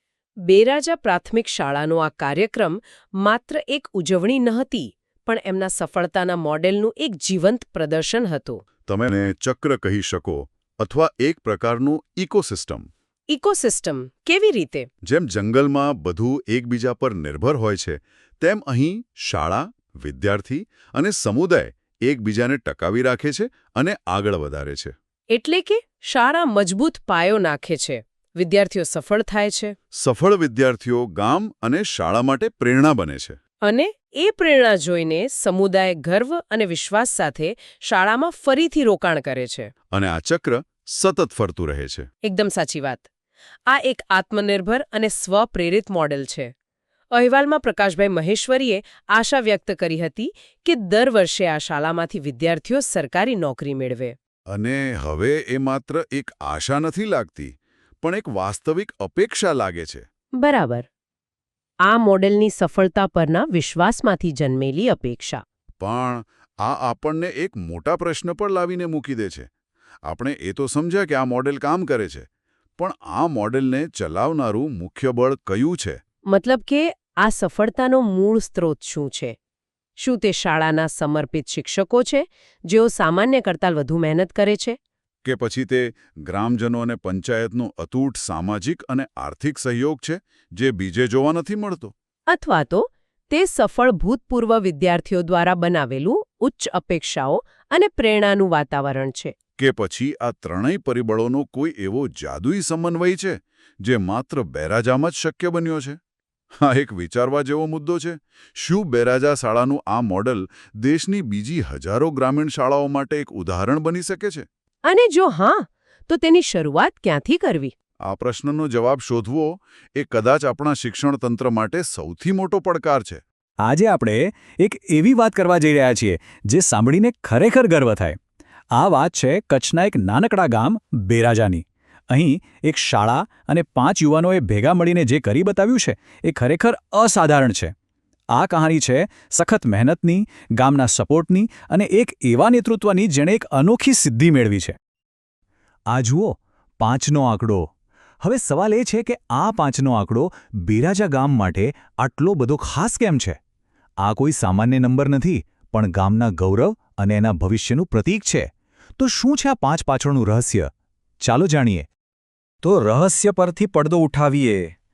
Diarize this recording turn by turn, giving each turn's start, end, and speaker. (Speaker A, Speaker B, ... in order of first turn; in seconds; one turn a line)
Speaker A: 0.5-8.6
Speaker B: 8.9-12.9
Speaker A: 13.3-14.9
Speaker B: 15.0-24.9
Speaker A: 25.3-29.8
Speaker B: 29.9-33.4
Speaker A: 33.6-39.7
Speaker B: 39.9-42.1
Speaker A: 42.2-43.0
Speaker A: 43.7-46.5
Speaker A: 47.1-54.1
Speaker B: 54.5-60.0
Speaker A: 60.4-60.9
Speaker A: 61.9-65.4
Speaker B: 65.8-69.5
Speaker B: 70.0-72.3
Speaker B: 72.8-76.0
Speaker A: 76.3-79.4
Speaker A: 80.0-84.8
Speaker B: 85.2-91.9
Speaker A: 92.3-99.3
Speaker B: 99.6-106.0
Speaker B: 106.5-114.5
Speaker A: 114.9-117.7
Speaker B: 118.0-123.2
Speaker C: 123.6-128.2
Speaker C: 128.7-137.7
Speaker C: 138.3-144.8
Speaker C: 145.9-147.7
Speaker C: 148.2-153.4
Speaker C: 154.0-160.7
Speaker C: 161.2-161.9
Speaker C: 162.6-164.7